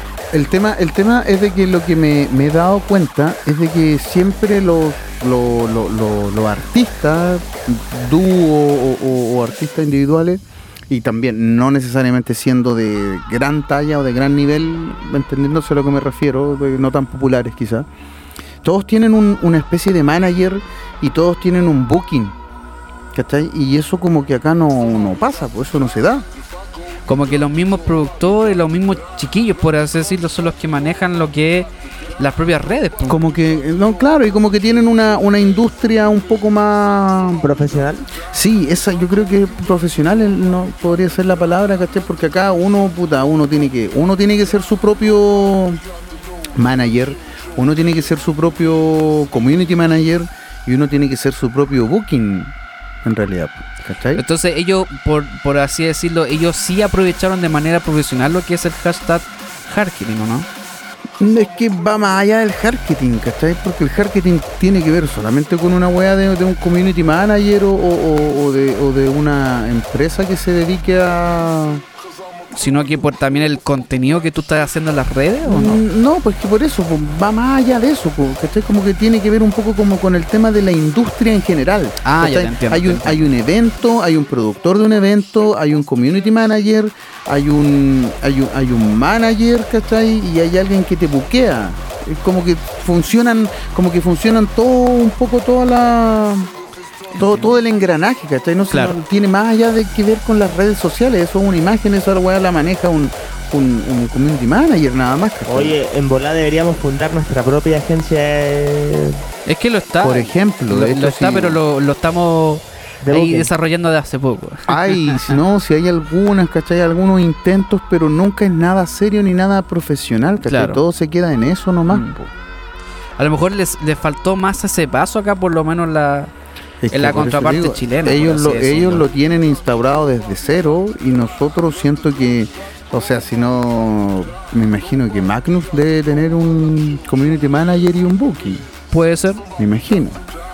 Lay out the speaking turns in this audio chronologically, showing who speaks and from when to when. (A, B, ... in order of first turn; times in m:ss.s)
0:00.3-0:17.9 A
0:18.6-0:22.3 A
0:23.1-0:26.2 A
0:27.1-0:33.2 B
0:33.1-0:37.4 A
0:37.4-0:38.1 C
0:38.3-0:45.8 A
0:46.6-0:52.5 A
0:53.0-0:54.2 A
0:54.1-1:00.5 B
1:01.2-1:11.8 A
1:12.5-1:15.8 B
1:15.4-1:36.5 A
1:22.0-1:23.2 B
1:37.1-1:37.5 B
1:37.2-1:45.8 A
1:38.7-1:39.0 B
1:45.5-1:49.2 C
1:49.4-1:55.4 B
1:50.0-1:51.6 A
1:53.0-1:53.5 C
1:54.7-2:02.3 A
2:00.4-2:00.8 B
2:03.2-2:06.3 B
2:06.8-2:18.7 A
2:06.9-2:09.1 B
2:18.9-2:19.4 B
2:19.6-2:20.2 A